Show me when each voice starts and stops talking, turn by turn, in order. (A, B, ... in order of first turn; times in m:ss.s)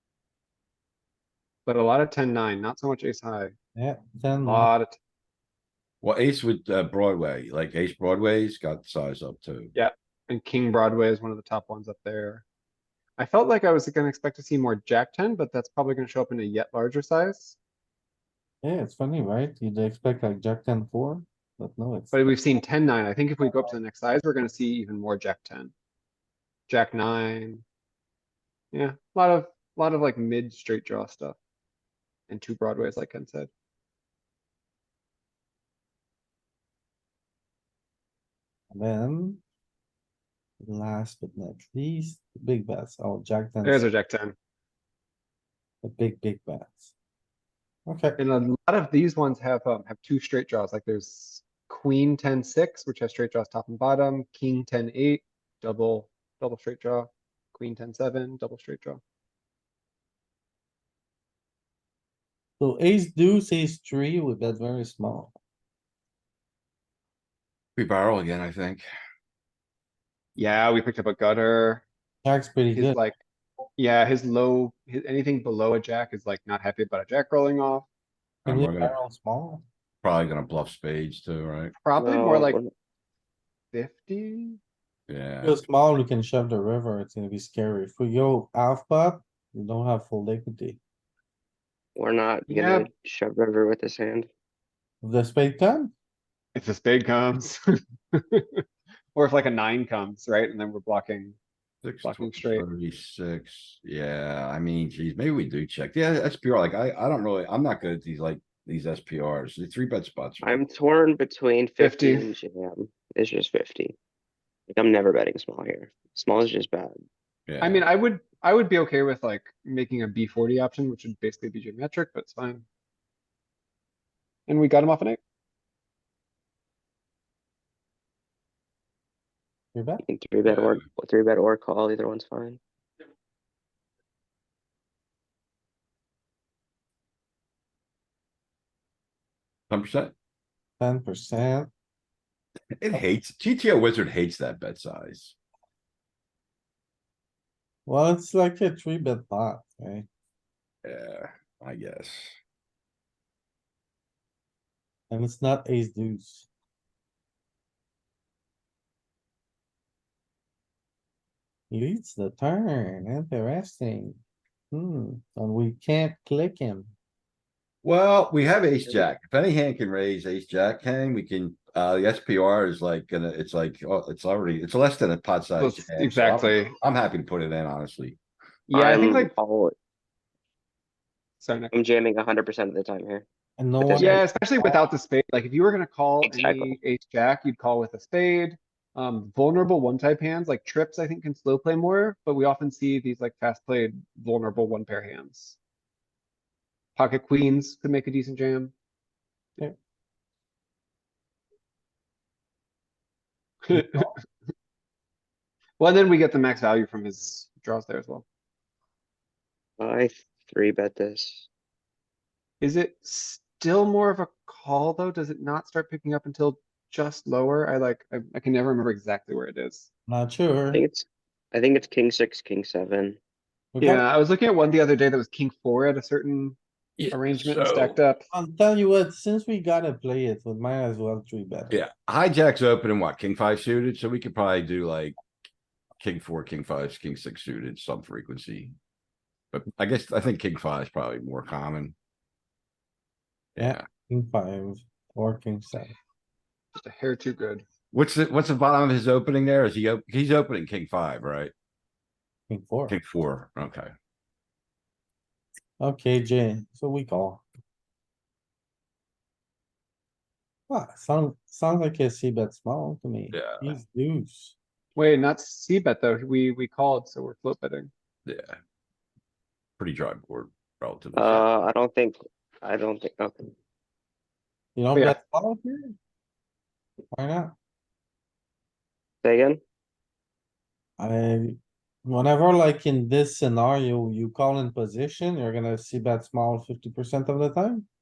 0:01.7-0:03.5 A
0:03.8-0:04.7 B
0:04.4-0:05.0 A
0:06.0-0:09.8 C
0:09.8-0:12.4 A
0:13.2-0:17.6 A
0:18.6-0:22.2 B
0:22.1-0:25.7 A
0:26.7-0:27.6 A
0:28.7-0:31.4 A
0:32.3-0:33.5 A
0:38.7-0:39.4 B
0:40.6-0:43.8 B
0:43.6-0:44.4 A
0:45.8-0:46.9 B
0:47.9-0:48.2 B
0:48.2-0:59.0 A
1:02.6-1:05.4 B
1:07.8-1:08.8 C
1:10.4-1:11.8 A
1:12.2-1:13.0 B
1:12.7-1:13.2 A
1:13.8-1:17.9 A
1:18.4-1:18.9 C
1:18.5-1:19.6 B
1:20.0-1:21.8 C
1:21.8-1:22.6 A
1:22.0-1:22.7 D
1:23.7-1:24.6 A
1:25.1-1:25.6 C
1:25.4-1:30.8 B
1:32.0-1:34.3 D
1:32.5-1:32.9 A
1:35.0-1:35.9 B
1:36.6-1:37.6 A
1:38.1-1:38.6 A
1:39.2-1:41.4 A
1:41.8-1:50.6 C
1:42.0-1:42.6 A
1:50.4-1:54.0 D
1:51.8-1:52.3 A
1:54.7-1:57.0 D
1:57.5-1:57.8 C
1:57.6-2:02.7 A
2:04.5-2:05.2 A
2:09.7-2:10.0 B
2:10.0-2:12.6 D
2:10.4-2:10.8 C
2:19.7-2:20.1 C
2:20.8-2:21.7 B
2:22.8-2:25.4 C
2:27.9-2:30.1 B
2:30.8-2:32.4 C
2:35.1-2:36.5 B
2:41.7-2:44.2 B
2:44.7-2:46.9 B
2:47.8-2:58.2 C
2:55.6-2:56.8 A
2:58.7-2:59.3 A
2:58.7-2:59.8 D
3:01.4-3:01.7 A
3:01.7-3:03.2 D
3:03.6-3:04.3 B
3:03.8-3:04.8 D
3:04.0-3:15.6 A
3:06.2-3:06.8 D
3:17.0-3:18.7 A
3:23.7-3:24.1 A
3:25.8-3:28.2 A
3:29.8-3:31.5 D
3:32.6-3:39.9 A
3:40.1-3:40.8 B
3:40.7-3:43.2 D
3:43.7-3:44.0 B
3:43.8-3:46.6 A
3:47.0-3:48.0 C
3:47.1-3:48.3 A
3:48.3-3:51.8 B
3:51.7-3:55.2 C
3:56.0-3:58.8 C
3:59.5-4:02.0 C
4:03.6-4:03.8 C
4:03.6-4:06.0 B
4:06.8-4:07.6 A
4:07.9-4:11.5 C
4:12.5-4:13.0 B
4:12.9-4:13.9 C
4:15.8-4:17.5 B
4:20.7-4:24.6 B
4:23.3-4:23.8 C
4:25.0-4:27.9 A
4:28.3-4:28.6 C
4:29.8-4:31.5 C
4:31.1-4:33.5 D
4:34.8-4:36.0 B
4:37.1-4:37.6 B
4:39.2-4:39.6 D
4:41.0-4:47.9 B